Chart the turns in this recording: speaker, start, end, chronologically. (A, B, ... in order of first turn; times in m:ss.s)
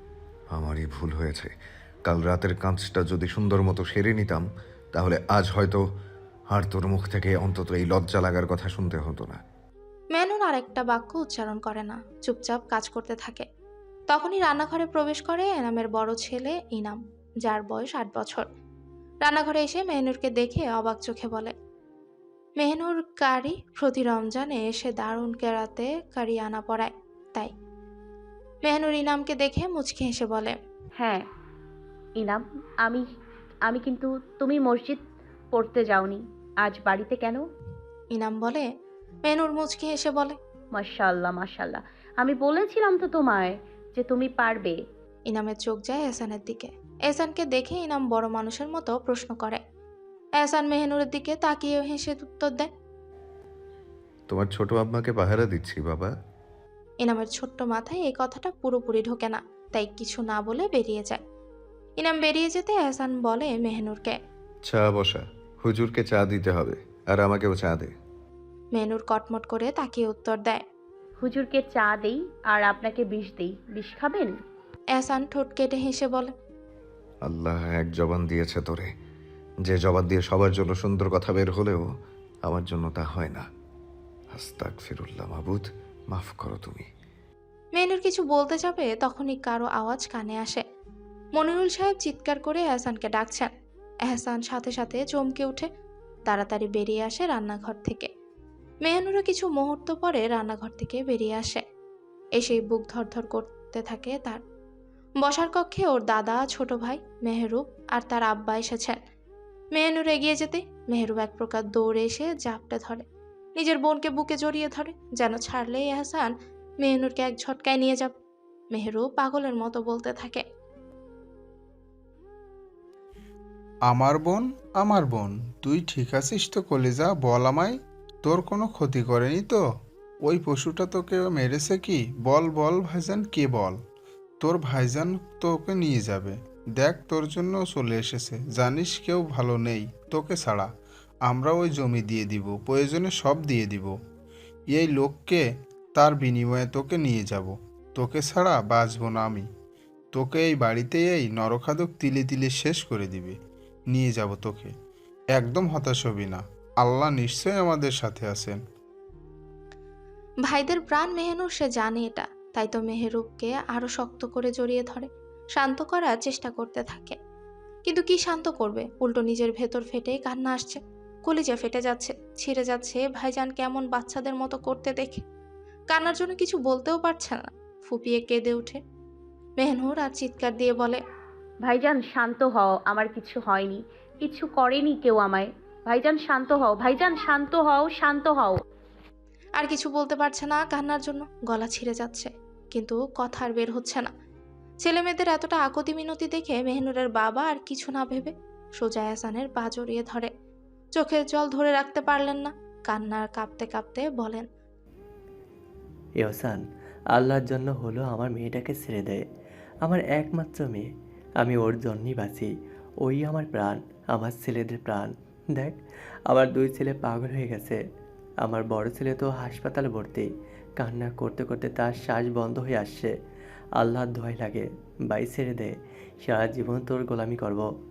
0:00.5-0:01.5 A
0:02.1-0:05.8 A
0:06.5-0:09.4 A
0:10.1-0:13.4 B
0:14.1-0:18.4 B
0:19.2-0:21.5 B
0:22.6-0:27.5 B
0:28.6-0:30.6 B
0:31.0-0:31.2 C
0:32.2-0:33.0 C
0:33.6-0:35.0 C
0:35.5-0:37.4 C
0:38.1-0:38.7 B
0:39.3-0:40.4 B
0:40.8-0:44.8 C
0:45.3-0:49.6 B
0:50.4-0:52.7 B
0:54.3-0:56.1 A
0:57.0-1:01.2 B
1:02.0-1:04.1 B
1:04.6-1:07.9 A
1:08.8-1:10.6 B
1:11.2-1:14.4 C
1:14.9-1:16.3 B
1:17.2-1:18.9 A
1:19.6-1:21.9 A
1:22.4-1:23.4 A
1:24.3-1:26.9 A
1:27.8-1:30.6 B
1:31.4-1:33.5 B
1:34.1-1:35.7 B
1:36.3-1:38.1 B
1:38.8-1:41.6 B
1:42.4-1:44.4 B
1:45.2-1:49.0 B
1:49.8-1:53.0 B
1:53.6-1:58.1 B
1:58.8-2:00.4 B
2:03.9-2:09.6 D
2:10.2-2:13.8 D
2:14.4-2:20.7 D
2:21.3-2:23.9 D
2:24.7-2:25.4 D
2:26.0-2:29.5 D
2:30.1-2:33.4 D
2:33.9-2:34.7 D
2:35.3-2:38.6 D
2:40.4-2:47.2 B
2:47.9-2:55.2 B
2:55.9-2:58.8 B
2:59.6-3:01.0 B
3:01.6-3:08.6 C
3:09.6-3:14.1 B
3:14.8-3:20.3 B
3:21.0-3:24.4 B
3:26.2-3:26.6 E
3:27.1-3:29.2 E
3:29.9-3:30.9 E
3:31.4-3:32.5 E
3:33.0-3:35.8 E
3:36.3-3:37.8 E
3:38.4-3:40.3 E
3:40.8-3:43.1 E
3:43.8-3:45.7 E
3:46.3-3:47.6 E